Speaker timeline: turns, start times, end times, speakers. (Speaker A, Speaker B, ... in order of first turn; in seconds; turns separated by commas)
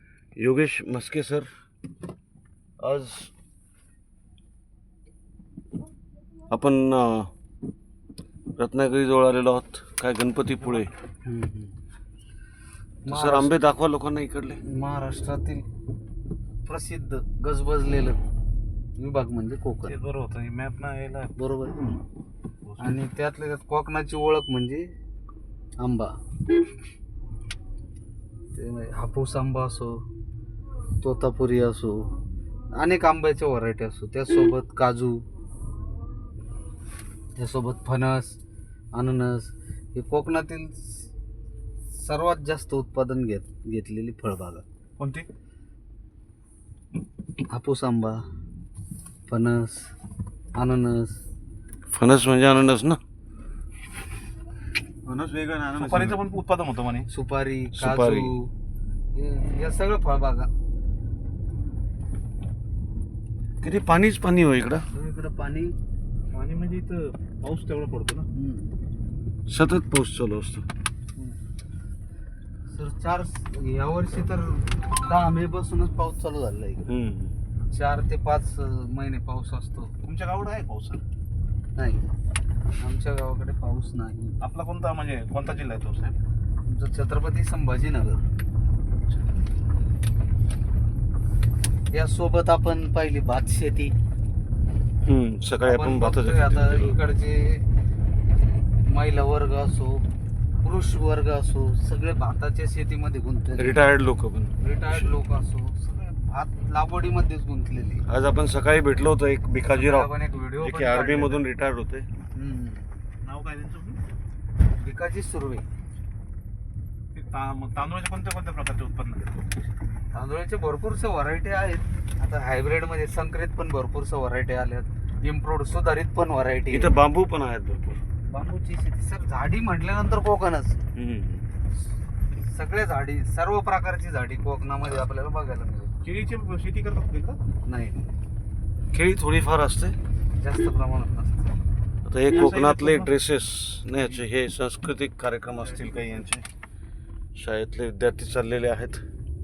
Speaker A: 0.4-1.5, Speaker A: 2.8-3.3, Speaker A: 6.5-7.3, Speaker A: 8.6-10.9, Speaker B: 11.2-11.7, Speaker B: 13.1-13.5, Speaker A: 13.1-14.6, Speaker B: 14.6-15.6, Speaker B: 16.6-18.2, Speaker B: 19.0-20.0, Speaker C: 19.9-21.3, Speaker B: 21.4-22.0, Speaker C: 22.7-23.0, Speaker B: 22.8-24.9, Speaker B: 25.8-26.2, Speaker B: 28.5-30.0, Speaker B: 31.0-32.1, Speaker B: 32.8-35.2, Speaker B: 37.4-38.4, Speaker B: 38.9-41.1, Speaker B: 41.9-44.6, Speaker C: 45.0-45.3, Speaker B: 47.5-48.2, Speaker B: 49.3-49.9, Speaker B: 50.5-51.2, Speaker A: 51.9-53.0, Speaker A: 55.0-56.2, Speaker C: 55.7-57.1, Speaker B: 57.1-58.5, Speaker A: 57.8-58.3, Speaker B: 59.1-60.5, Speaker A: 63.6-64.8, Speaker B: 64.9-65.8, Speaker C: 66.3-68.3, Speaker B: 68.3-68.7, Speaker A: 69.5-70.7, Speaker B: 72.7-76.9, Speaker A: 76.9-77.3, Speaker B: 77.7-79.9, Speaker C: 80.0-81.0, Speaker B: 81.8-82.0, Speaker B: 82.8-84.4, Speaker C: 84.4-86.2, Speaker B: 86.7-88.2, Speaker B: 91.9-93.9, Speaker A: 95.0-97.0, Speaker B: 95.6-97.6, Speaker B: 98.9-100.0, Speaker B: 100.6-103.8, Speaker A: 103.6-105.1, Speaker B: 104.6-108.0, Speaker A: 108.1-112.1, Speaker B: 109.7-111.4, Speaker B: 112.3-112.9, Speaker C: 113.2-114.0, Speaker B: 114.8-115.6, Speaker C: 117.1-119.5, Speaker B: 120.1-126.9, Speaker A: 126.7-128.0, Speaker B: 128.3-130.8, Speaker A: 130.9-131.4, Speaker B: 132.3-135.9, Speaker C: 136.0-137.4, Speaker B: 137.7-138.1, Speaker A: 138.9-140.0, Speaker B: 140.4-141.5, Speaker A: 142.1-146.4, Speaker C: 142.3-143.2, Speaker C: 145.5-146.3, Speaker A: 147.4-149.0